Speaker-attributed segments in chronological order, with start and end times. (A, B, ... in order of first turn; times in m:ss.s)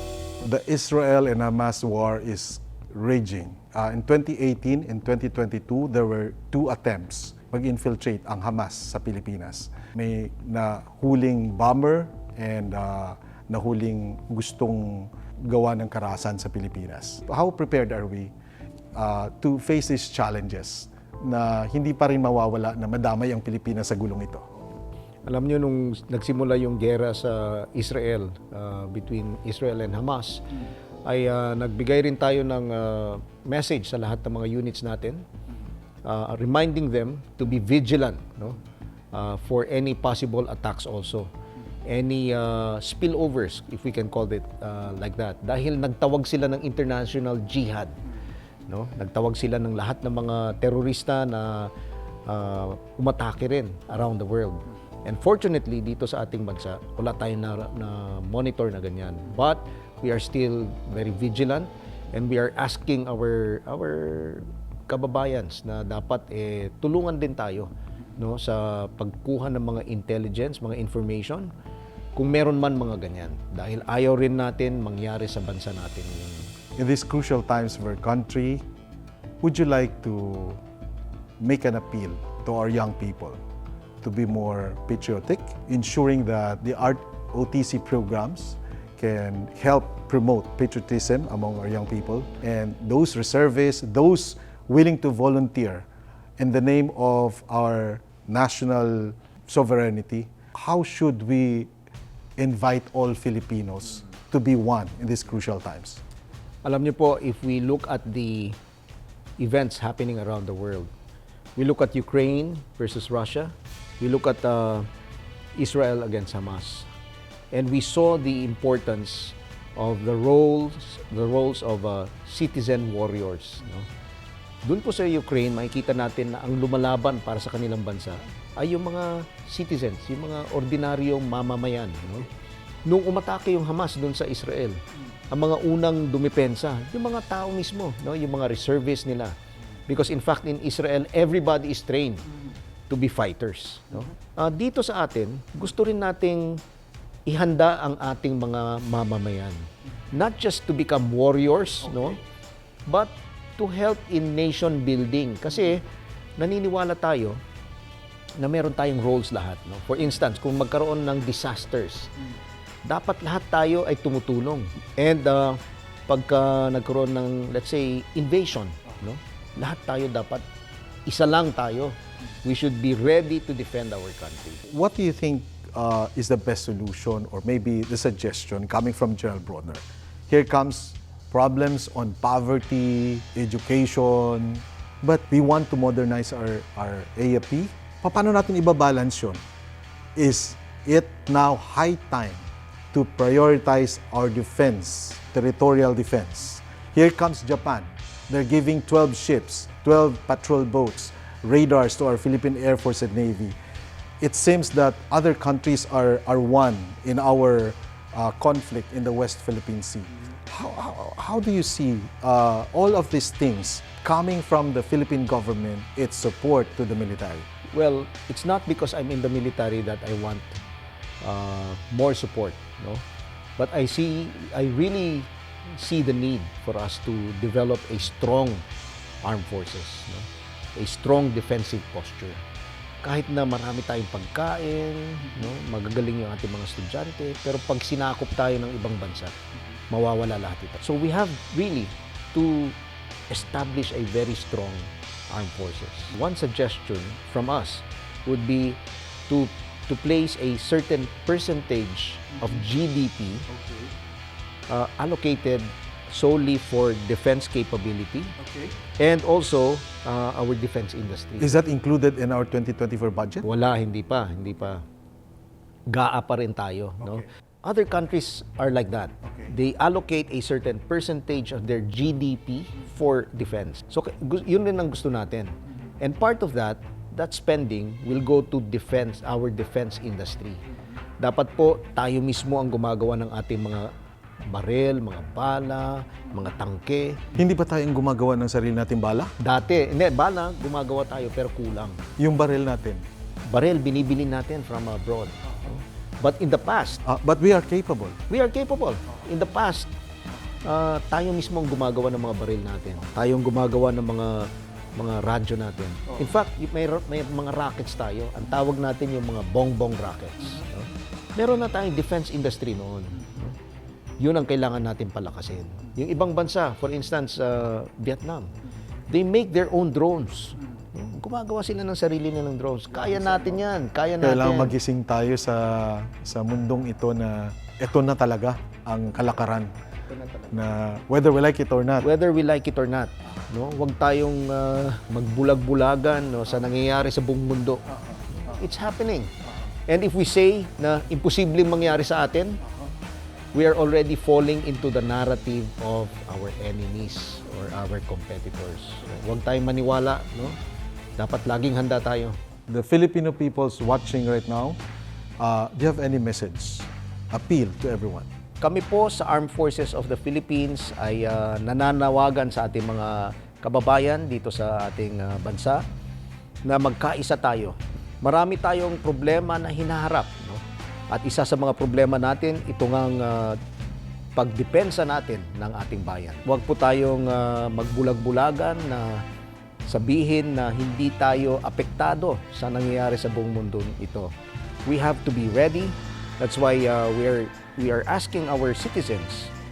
0:00.4-0:18.3 A
0:19.0-0:24.4 A
0:25.2-0:30.5 B
0:31.0-0:35.2 B
0:36.0-0:38.6 B
0:39.1-0:41.3 B
0:41.8-0:48.0 B
0:48.7-0:51.7 B
0:52.2-1:11.5 B
1:12.2-1:16.5 B
1:16.8-1:18.6 A
1:19.4-1:20.6 A
1:21.4-1:23.4 A
1:24.0-1:35.8 A
1:36.4-1:41.7 A
1:42.4-1:46.0 A
1:46.6-1:48.6 B
1:49.4-1:50.9 B
1:51.6-1:54.9 B
1:55.5-1:56.9 B
1:57.5-2:03.9 B
2:04.6-2:12.3 B
2:12.8-2:19.4 B
2:19.9-2:22.3 B
2:22.9-2:26.6 B
2:27.2-2:32.2 B
2:32.9-2:35.8 B
2:36.4-2:37.4 B
2:38.4-2:42.1 B
2:42.8-2:50.4 B
2:51.0-2:54.6 B
2:54.7-3:09.4 A
3:10.2-3:23.6 A
3:24.2-3:37.5 A
3:37.7-3:40.6 B
3:41.2-3:43.0 B
3:43.6-3:48.6 B
3:49.2-3:52.4 B
3:53.0-3:59.4 B
3:59.9-4:02.8 B
4:03.3-4:13.5 B
4:14.7-4:18.4 B
4:19.0-4:21.5 B
4:21.4-4:23.4 A
4:23.4-4:24.8 B
4:25.9-4:40.6 B
4:41.2-4:43.9 B
4:44.5-4:47.3 B
4:47.3-4:49.3 A
4:49.4-4:52.0 B
4:52.2-4:53.0 A
4:53.5-4:57.0 B
4:57.0-4:58.2 A
4:58.3-4:59.9 B
5:00.6-5:13.6 B
5:14.2-5:18.5 B
5:19.1-5:24.7 B
5:24.2-5:29.7 A
5:30.5-5:32.1 A
5:32.0-5:39.3 B
5:39.9-5:42.6 B
5:43.5-5:50.6 B
5:51.2-5:52.4 B
5:52.7-5:54.8 A
5:55.4-5:58.2 A
5:58.6-6:05.8 B
6:06.6-6:13.6 B
6:14.3-6:19.2 B
6:19.9-6:24.3 B
6:24.8-6:29.5 B